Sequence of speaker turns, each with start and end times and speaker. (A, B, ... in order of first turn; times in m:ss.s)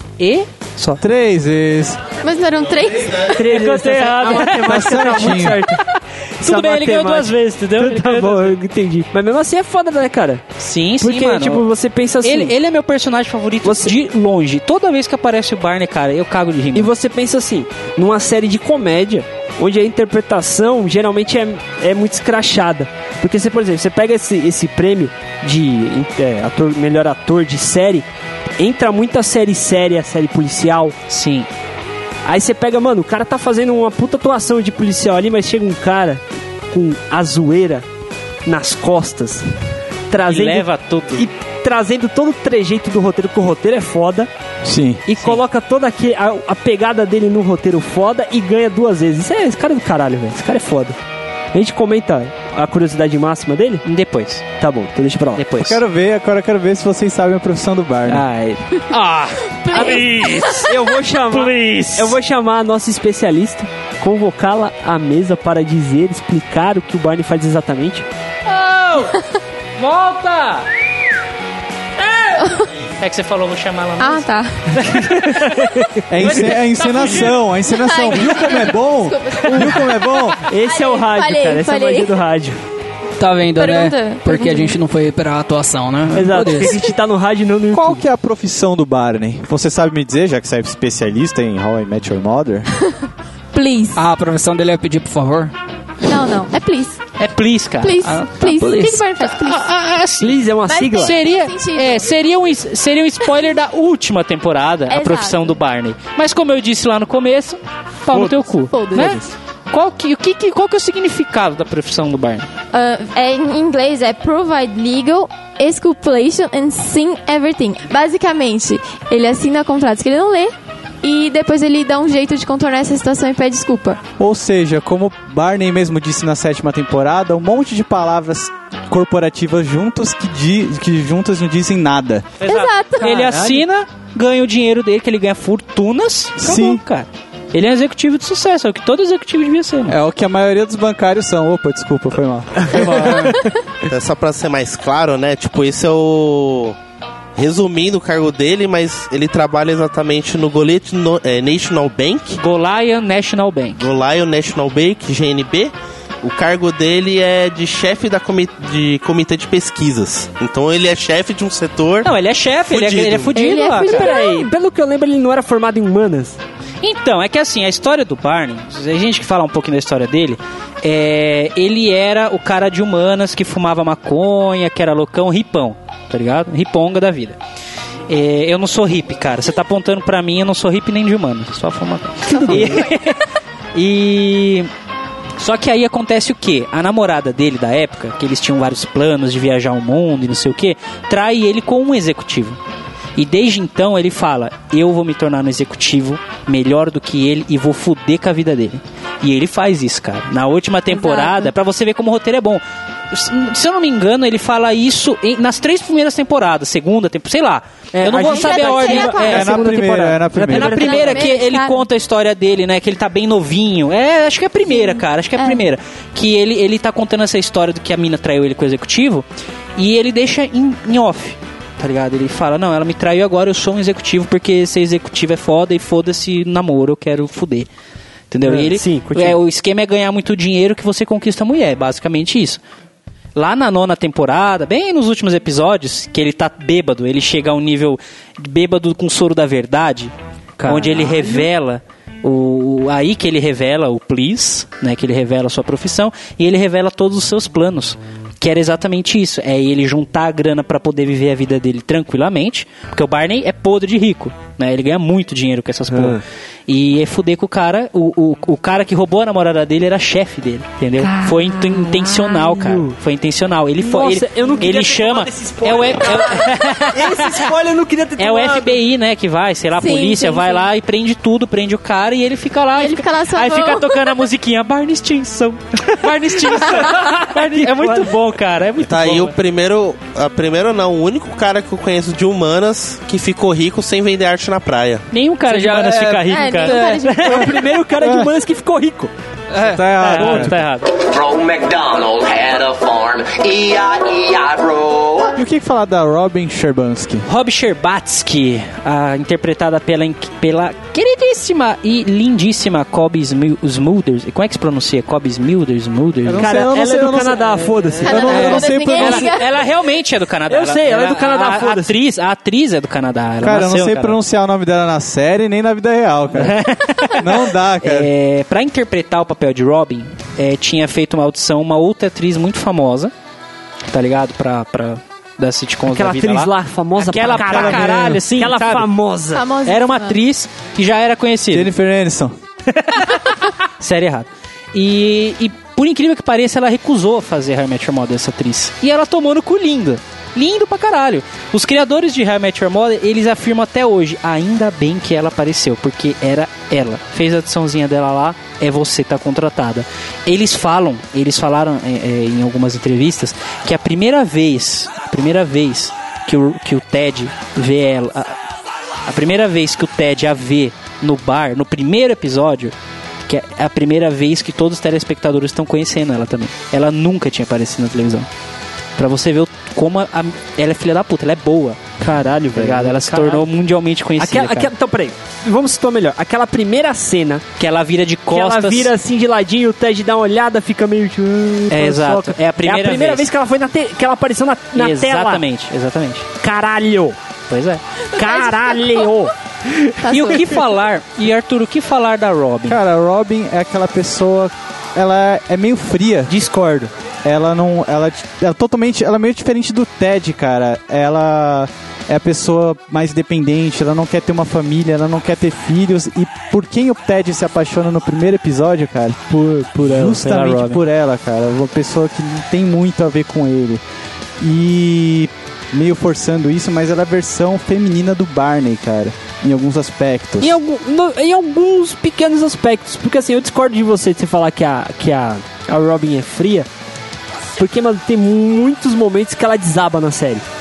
0:00.2-0:01.0 A
0:01.0-0:02.0 B
0:02.2-0:03.4 C
0:03.3-0:05.8 D
0:03.4-0:08.6 A
0:04.6-0:05.6 B
0:06.4-0:10.4 D
0:10.6-0:11.6 A
0:11.0-0:12.5 D
0:12.2-0:16.9 A
0:13.6-0:13.9 D
0:16.8-0:28.1 D
0:28.6-0:31.0 D
0:31.1-0:31.5 A
0:32.3-0:37.9 D
0:38.5-0:39.5 D
0:40.1-0:44.3 D
0:40.3-0:41.3 A
0:44.6-0:45.0 B
0:45.1-0:51.0 D
0:51.5-0:53.8 D
0:53.8-0:54.4 A
0:54.6-0:55.4 D
0:55.4-0:55.8 A
0:55.6-0:58.3 B
0:58.1-1:02.2 A
0:59.6-1:00.6 C
1:00.6-1:08.1 D
1:08.5-1:09.2 A
1:09.8-1:10.7 A
1:12.0-1:14.3 A
1:12.4-1:12.7 C
1:14.0-1:14.6 C
1:14.7-1:16.4 D
1:14.8-1:15.6 A
1:16.1-1:20.4 B
1:16.2-1:17.4 A
1:17.7-1:20.0 C
1:20.5-1:22.6 D
1:20.6-1:22.2 C
1:23.2-1:26.9 E
1:23.5-1:24.8 C
1:26.1-1:28.0 D
1:27.7-1:32.7 B
1:33.5-1:34.0 C
1:34.0-1:35.5 E
1:36.0-1:37.0 C
1:37.2-1:38.1 A
1:37.8-1:39.6 C
1:38.0-1:39.0 E
1:39.3-1:40.4 A
1:40.2-1:41.1 D
1:40.7-1:42.1 C
1:40.9-1:52.5 A
1:44.9-1:45.6 C
1:48.1-1:48.5 D
1:48.7-1:49.3 C
1:52.7-2:04.0 C
2:04.2-2:12.4 B
2:12.4-2:20.0 A
2:12.4-2:13.3 C
2:16.4-2:16.8 B
2:19.9-2:23.4 B
2:22.7-2:23.2 D
2:23.9-2:26.8 F
2:27.4-2:32.4 F
2:32.4-2:33.9 A
2:33.8-2:42.1 F
2:42.0-2:44.1 A
2:42.7-2:43.4 F
2:43.4-2:44.5 C
2:43.8-2:46.4 D
2:46.8-2:57.4 A
2:58.1-3:03.2 A
3:02.4-3:02.8 C
3:02.5-3:02.8 D
3:03.8-3:04.7 A
3:05.4-3:12.6 A
3:13.2-3:29.9 A
3:20.9-3:21.5 C
3:27.9-3:31.3 D
3:28.1-3:29.8 C
3:29.3-3:30.8 B
3:30.5-3:39.3 A
3:30.6-3:31.9 C
3:34.7-3:35.6 C
3:39.8-3:47.7 A
3:48.3-3:52.6 A
3:48.4-3:49.4 D
3:53.4-4:00.1 A
4:00.6-4:01.5 D
4:00.6-4:27.5 A
4:15.9-4:16.2 D
4:21.0-4:23.0 D
4:23.8-4:28.8 D
4:28.2-4:39.3 A
4:29.8-4:30.6 C
4:32.8-4:34.1 C
4:36.6-4:38.1 D
4:38.8-4:45.1 F
4:45.1-4:47.6 A
4:45.5-4:47.0 E
4:46.2-4:47.5 C
4:47.2-4:49.1 D
4:48.0-4:48.3 B
4:49.6-4:50.9 A
4:49.6-4:50.6 B
4:50.9-4:55.4 G
4:55.4-4:57.2 B
4:57.3-5:06.6 A
5:06.3-5:09.3 B
5:06.4-5:08.4 D
5:08.0-5:09.5 C
5:08.2-5:14.2 A
5:10.5-5:11.9 D
5:13.4-5:18.1 B
5:16.3-5:23.1 A
5:23.9-5:28.9 A
5:25.9-5:29.4 D
5:27.4-5:28.2 B
5:29.3-5:30.2 C
5:29.6-5:31.7 A
5:31.5-5:32.3 B
5:32.7-5:58.4 A
5:59.1-6:02.7 A
6:03.3-6:08.3 A
6:09.0-6:11.8 A
6:12.0-6:13.5 D
6:12.6-6:14.7 A
6:14.2-6:17.4 D
6:17.6-6:18.9 A
6:18.3-6:25.4 D
6:21.7-6:23.3 A
6:24.8-6:26.3 A
6:26.4-6:27.2 D
6:27.5-6:27.8 A
6:28.2-6:29.1 C
6:28.2-6:29.8 D
6:30.0-6:30.5 C
6:30.1-6:32.8 A
6:32.7-6:36.3 B
6:36.3-6:36.9 D
6:37.2-6:53.8 B
6:49.8-6:50.8 A
6:54.4-7:00.6 B
7:00.4-7:06.7 D
7:07.6-7:10.4 D